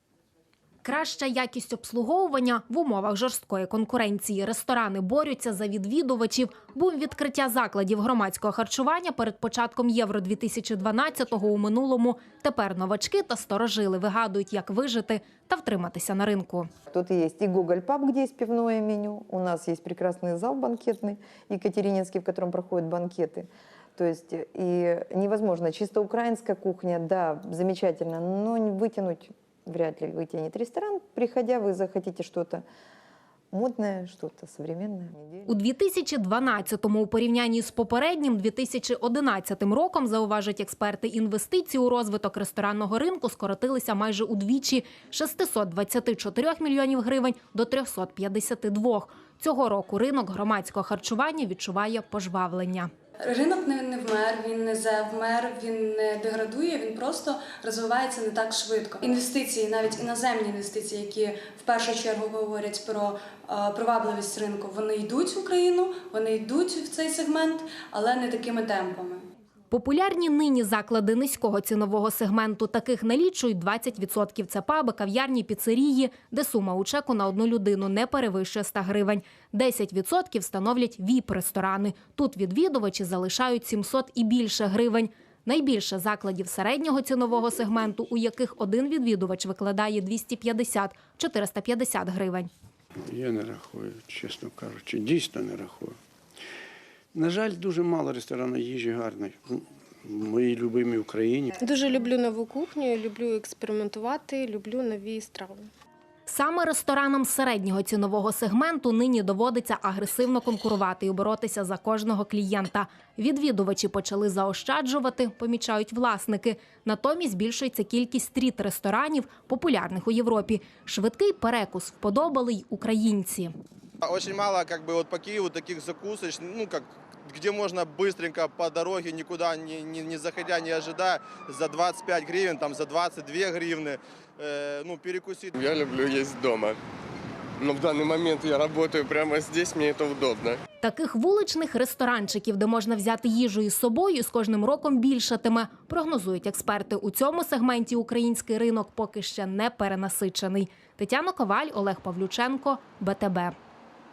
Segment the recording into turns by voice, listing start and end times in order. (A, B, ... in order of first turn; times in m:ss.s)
0:00.8-0:16.7 A
0:16.9-0:32.6 B
0:33.5-0:35.6 B
0:35.5-0:52.9 A
0:53.2-1:09.3 C
1:09.7-1:32.5 A
1:33.1-1:36.0 D
1:37.1-1:41.5 D
1:41.6-1:45.7 E
1:46.3-2:03.5 A
2:04.0-2:15.6 F
2:15.6-2:16.7 G
2:17.6-2:20.6 G
2:20.8-2:33.6 A